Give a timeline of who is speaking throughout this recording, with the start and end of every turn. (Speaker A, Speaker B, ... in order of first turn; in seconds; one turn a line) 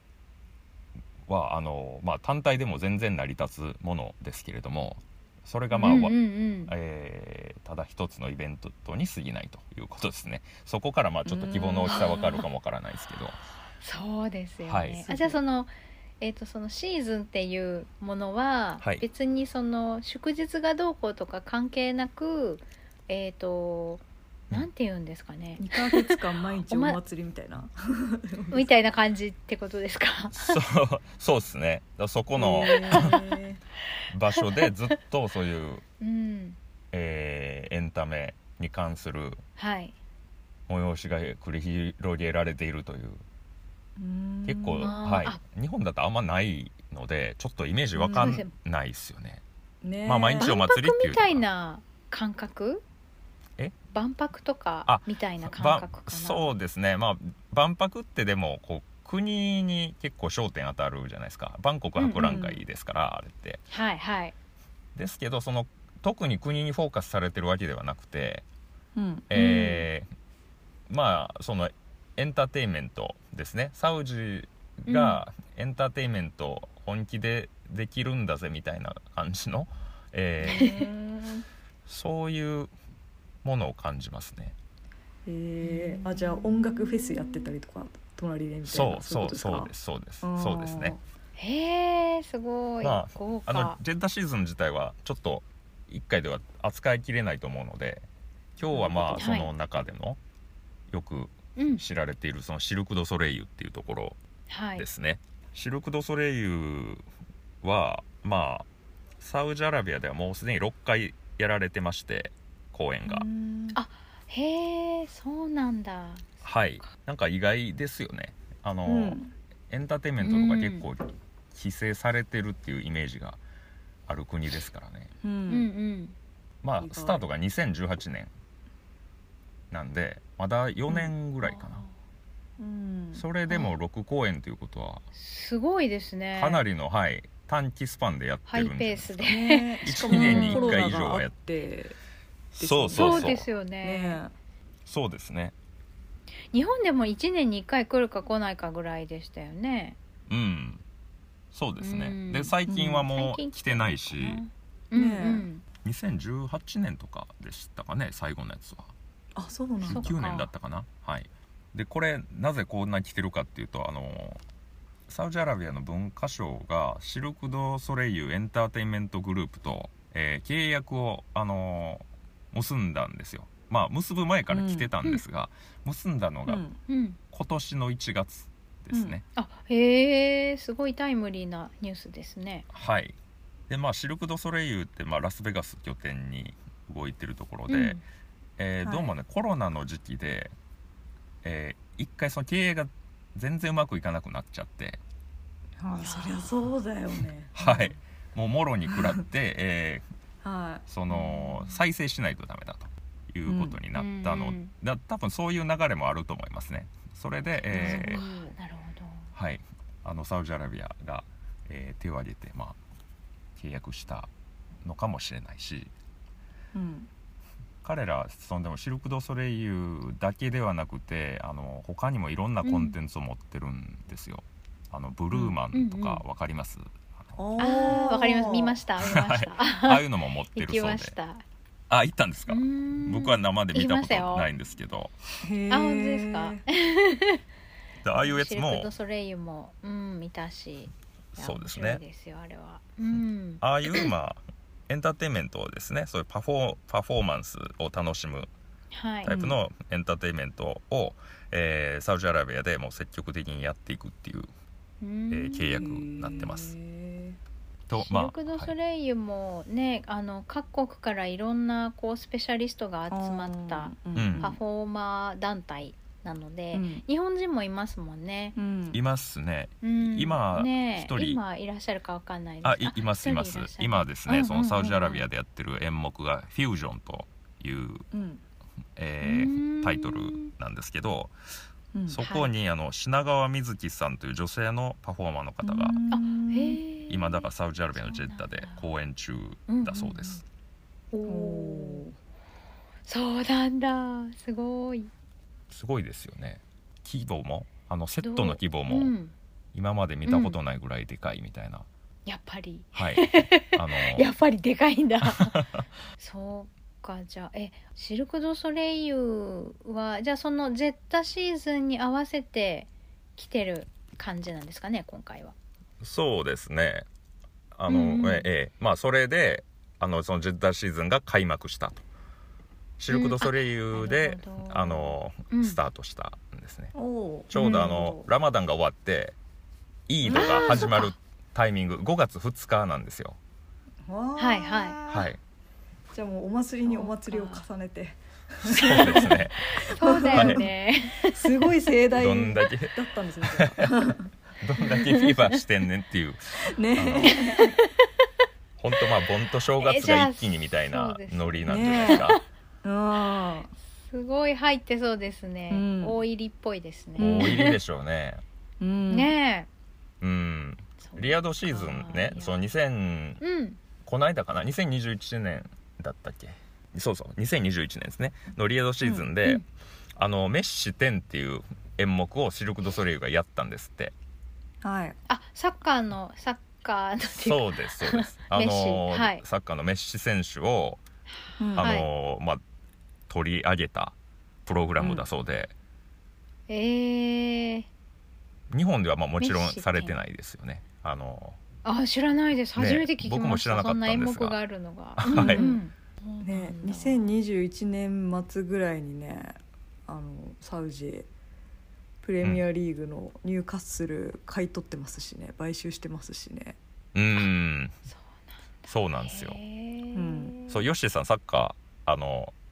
Speaker A: 1.3-13.4
Speaker B: 5.7-6.7
Speaker B: 11.3-12.4
Speaker B: 13.8-26.2
Speaker A: 14.6-15.3
Speaker C: 25.6-28.7
Speaker B: 26.7-27.0
Speaker B: 28.5-30.6
Speaker A: 30.3-33.2
Speaker C: 32.3-33.6
Speaker B: 32.6-33.2
Speaker A: 34.1-35.8
Speaker B: 34.4-34.6
Speaker B: 36.0-36.6
Speaker A: 36.9-39.4
Speaker B: 39.6-40.0
Speaker A: 40.7-43.2
Speaker C: 44.0-45.0
Speaker A: 44.5-49.4
Speaker B: 44.8-45.4
Speaker C: 48.0-48.4
Speaker B: 48.1-48.5
Speaker C: 49.8-50.5
Speaker A: 50.0-51.4
Speaker B: 50.4-52.8
Speaker B: 53.9-56.5
Speaker A: 54.9-63.6
Speaker B: 62.0-62.4
Speaker C: 62.1-62.6
Speaker B: 63.7-64.3
Speaker A: 65.0-68.4
Speaker C: 68.9-69.3
Speaker A: 69.3-70.0
Speaker B: 69.3-69.8
Speaker A: 70.9-80.7
Speaker B: 74.9-75.2
Speaker C: 80.4-81.4
Speaker B: 80.5-80.9
Speaker A: 81.9-82.7
Speaker A: 83.4-84.5
Speaker C: 85.2-91.0
Speaker B: 85.6-87.5
Speaker A: 88.7-91.0
Speaker B: 91.4-93.8
Speaker A: 92.8-98.0
Speaker A: 98.6-100.2
Speaker C: 98.7-99.3
Speaker B: 99.1-99.5
Speaker A: 100.9-104.2
Speaker B: 101.6-101.8
Speaker B: 104.5-104.8
Speaker A: 104.8-107.0
Speaker A: 107.6-108.6
Speaker A: 109.2-113.3
Speaker C: 113.0-113.8
Speaker B: 113.7-116.9
Speaker A: 116.4-119.2
Speaker C: 118.8-119.3
Speaker A: 119.7-123.4
Speaker B: 120.2-120.9
Speaker A: 124.1-125.1
Speaker C: 125.2-125.7
Speaker B: 125.5-126.2
Speaker A: 126.6-128.3
Speaker C: 126.8-127.3
Speaker A: 129.7-131.8
Speaker B: 131.4-131.9
Speaker C: 132.6-133.2
Speaker A: 133.1-135.0
Speaker B: 133.5-133.7
Speaker B: 135.1-136.7
Speaker A: 136.3-141.3
Speaker B: 138.5-140.8
Speaker C: 139.2-142.0
Speaker A: 142.6-143.4
Speaker C: 142.6-144.3
Speaker B: 142.9-144.2
Speaker A: 144.8-145.5
Speaker B: 146.5-150.0
Speaker A: 150.3-150.8
Speaker A: 151.5-154.4
Speaker B: 151.8-155.6
Speaker C: 152.7-153.1
Speaker C: 154.9-155.5
Speaker A: 155.8-158.9
Speaker C: 159.3-160.1
Speaker B: 159.8-160.5
Speaker A: 159.9-164.4
Speaker A: 165.1-176.6
Speaker C: 174.5-174.9
Speaker C: 176.4-176.8
Speaker B: 176.9-177.2
Speaker A: 177.3-179.2
Speaker C: 178.9-179.2
Speaker B: 179.3-182.7
Speaker A: 182.7-183.1
Speaker A: 183.7-188.0
Speaker B: 187.7-188.0
Speaker A: 188.6-190.5
Speaker C: 188.8-189.1
Speaker A: 191.4-195.0
Speaker C: 195.8-197.9
Speaker B: 196.0-196.5
Speaker A: 197.5-200.0
Speaker C: 200.4-200.8
Speaker A: 200.9-208.2
Speaker B: 201.1-201.8
Speaker C: 203.4-203.8
Speaker B: 203.9-204.7
Speaker B: 207.6-209.3
Speaker C: 207.7-208.3
Speaker A: 209.3-212.8
Speaker A: 213.6-214.3
Speaker A: 214.8-215.9
Speaker C: 216.7-217.1
Speaker A: 217.8-227.4
Speaker B: 222.6-222.9
Speaker C: 225.3-225.6
Speaker B: 225.7-226.2
Speaker C: 227.4-228.8
Speaker B: 227.6-231.4
Speaker A: 229.0-231.1
Speaker A: 231.9-235.2
Speaker B: 232.5-234.5
Speaker C: 235.4-236.6
Speaker B: 235.7-237.4
Speaker A: 238.0-238.9
Speaker B: 238.2-244.1
Speaker A: 241.3-242.0
Speaker A: 243.1-248.5
Speaker B: 248.9-249.4
Speaker A: 249.2-254.5
Speaker C: 249.3-249.5
Speaker B: 255.0-255.9
Speaker A: 255.3-256.7
Speaker C: 255.8-257.4
Speaker A: 257.9-258.7
Speaker B: 257.9-268.6
Speaker C: 263.1-264.6
Speaker A: 264.1-264.5
Speaker C: 266.7-267.0
Speaker C: 268.6-269.0
Speaker A: 268.9-271.4
Speaker B: 269.8-275.2
Speaker A: 272.6-278.1
Speaker C: 278.1-278.4
Speaker A: 278.9-281.3
Speaker B: 279.2-280.5
Speaker C: 281.9-282.2
Speaker A: 282.1-286.0
Speaker B: 282.2-282.5
Speaker C: 285.6-286.8
Speaker B: 286.1-288.9
Speaker A: 287.1-290.4
Speaker B: 289.7-290.4
Speaker B: 291.1-292.0
Speaker C: 291.2-292.2
Speaker B: 293.1-295.1
Speaker A: 295.7-299.1
Speaker B: 298.2-299.3
Speaker A: 299.7-301.9
Speaker B: 300.2-300.6
Speaker B: 302.2-305.7
Speaker A: 302.9-304.3
Speaker A: 305.2-305.8
Speaker B: 306.2-315.6
Speaker A: 316.0-317.0
Speaker A: 317.7-322.0
Speaker B: 317.9-318.5
Speaker A: 323.0-326.9
Speaker B: 323.1-325.8
Speaker C: 326.9-328.3
Speaker A: 327.5-329.3
Speaker B: 327.5-328.1
Speaker A: 330.1-333.4
Speaker C: 330.2-330.9
Speaker B: 330.3-331.1
Speaker C: 334.0-335.3
Speaker B: 334.4-335.0
Speaker A: 335.1-335.4
Speaker C: 336.1-344.3
Speaker B: 336.8-337.6
Speaker A: 338.7-340.6
Speaker B: 338.8-339.3
Speaker B: 339.9-341.7
Speaker A: 342.1-342.9
Speaker A: 343.5-343.9
Speaker A: 344.6-347.3
Speaker B: 344.8-345.6
Speaker C: 346.6-347.7
Speaker B: 347.3-348.3
Speaker A: 348.8-352.4
Speaker B: 349.8-352.4
Speaker C: 351.7-352.3
Speaker C: 352.8-353.7
Speaker B: 354.0-357.8
Speaker C: 355.7-356.2
Speaker C: 357.2-357.8
Speaker A: 357.2-358.4
Speaker C: 358.8-359.3
Speaker B: 359.1-359.7
Speaker A: 360.2-363.4
Speaker B: 361.0-362.6
Speaker B: 363.4-363.8
Speaker A: 364.0-369.6
Speaker C: 369.0-369.3
Speaker A: 370.1-374.1
Speaker C: 374.8-375.2
Speaker B: 375.3-379.4
Speaker A: 377.3-381.0
Speaker C: 381.6-381.9
Speaker A: 381.8-382.6
Speaker B: 381.8-382.1
Speaker A: 383.3-384.1
Speaker A: 384.6-385.7
Speaker C: 385.0-385.2
Speaker B: 386.7-387.9
Speaker A: 388.7-391.6
Speaker B: 389.4-390.1
Speaker B: 391.8-397.3
Speaker A: 392.8-394.6
Speaker A: 395.2-395.6
Speaker C: 395.3-395.8
Speaker C: 396.4-401.3
Speaker C: 402.2-406.8
Speaker A: 407.1-408.0
Speaker B: 408.1-410.9
Speaker A: 408.9-409.6
Speaker C: 410.1-410.6
Speaker A: 410.7-412.5